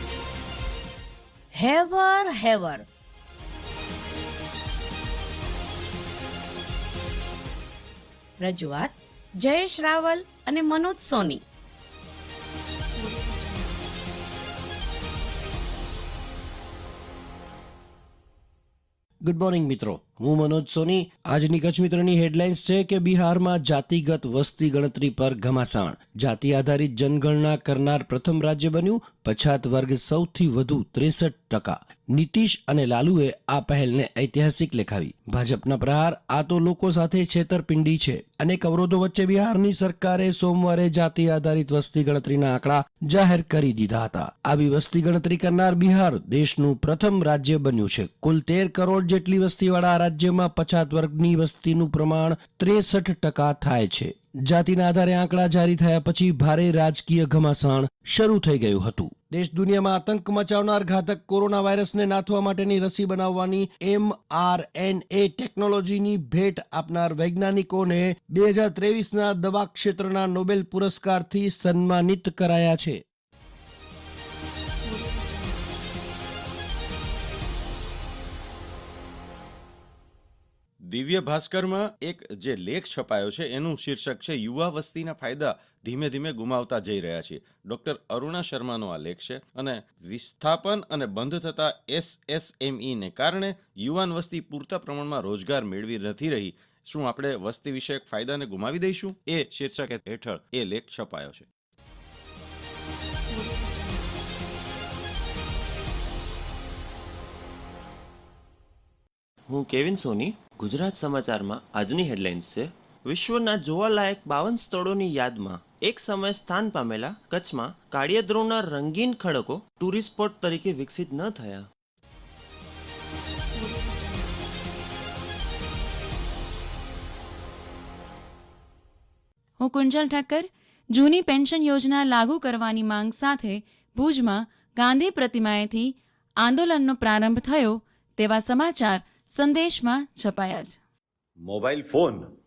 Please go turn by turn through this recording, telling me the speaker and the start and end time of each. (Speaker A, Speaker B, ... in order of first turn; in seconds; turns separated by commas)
Speaker A: 1.5-2.8, Speaker A: 8.4-11.4, Speaker B: 19.2-73.0, Speaker C: 80.9-101.5, Speaker D: 109.5-121.6, Speaker E: 129.6-140.8, Speaker C: 141.4-142.3